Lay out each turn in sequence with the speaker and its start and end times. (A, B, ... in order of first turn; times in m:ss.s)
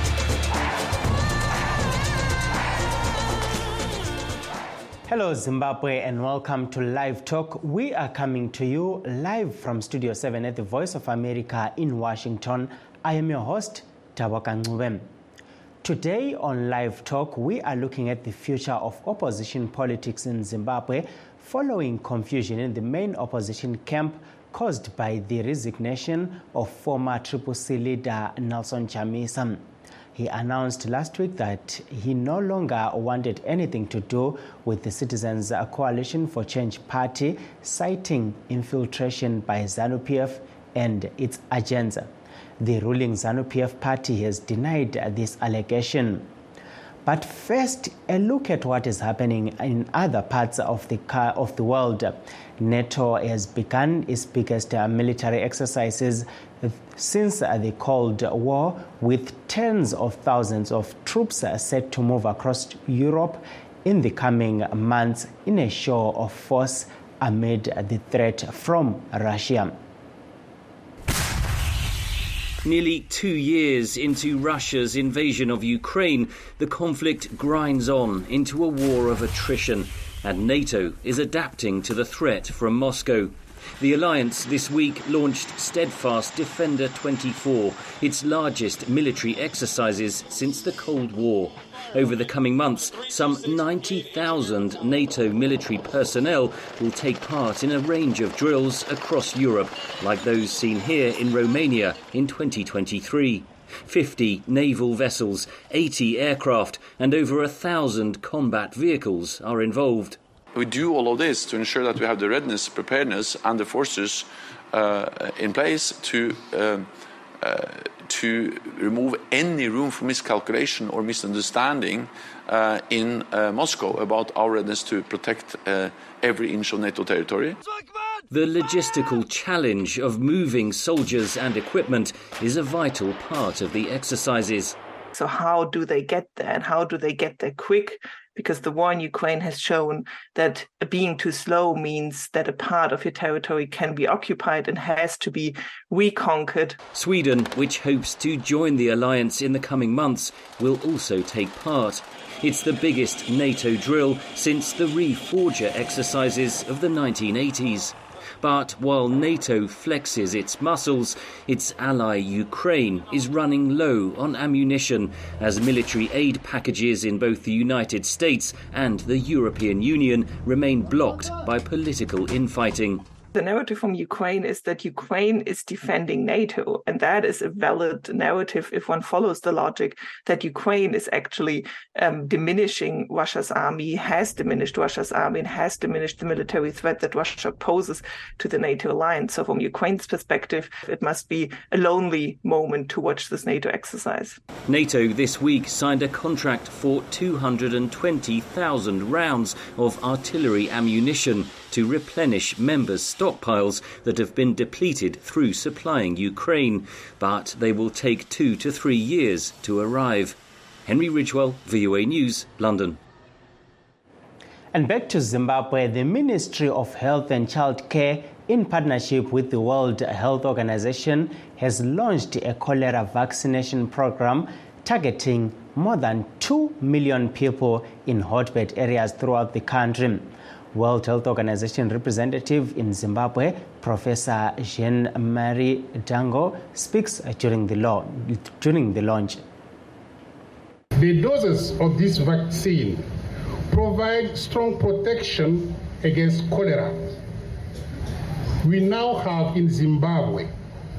0:05.1-0:15.1 A
0:15.8-0:29.6 A
0:30.1-0:46.3 A
0:47.0-1:09.7 A
1:12.6-1:50.2 B
1:50.5-2:07.6 C
2:08.3-2:14.8 B
2:15.1-2:26.8 D
2:26.9-2:53.0 B
2:53.3-3:14.4 D
3:14.7-3:33.0 B
3:34.7-3:59.4 A
4:01.0-4:03.0 E
4:03.7-4:07.0 E
4:08.6-4:10.5 E